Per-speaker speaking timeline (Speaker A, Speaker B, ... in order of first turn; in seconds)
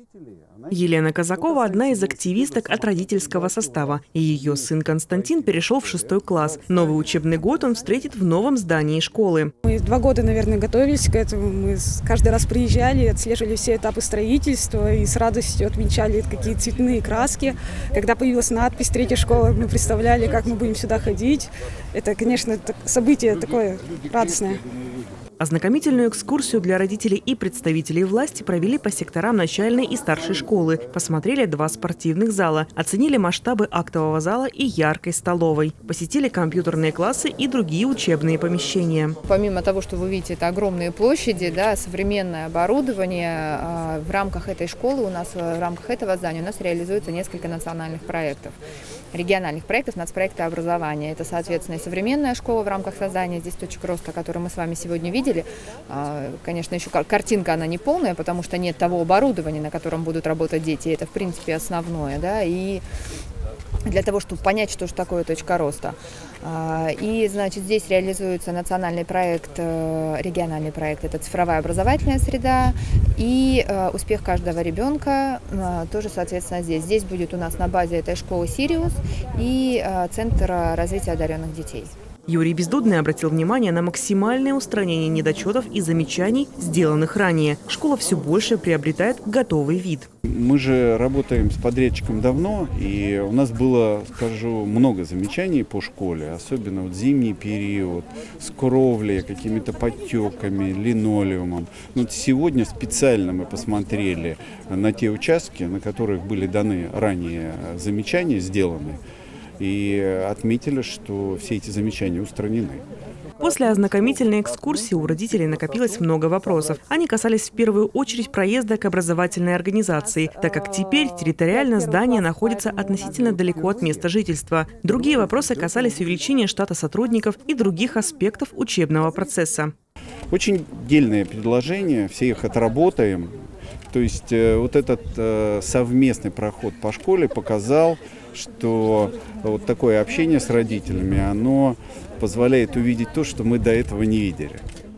Speaker A: 0.7-9.5, 25.4-39.2, 82.3-90.1, 113.4-129.7
Speaker B: 9.7-24.6
Speaker C: 39.2-48.5, 49.1-62.8, 63.9-81.9
Speaker D: 90.2-109.0, 109.6-112.8, 130.3-133.3, 133.9-144.6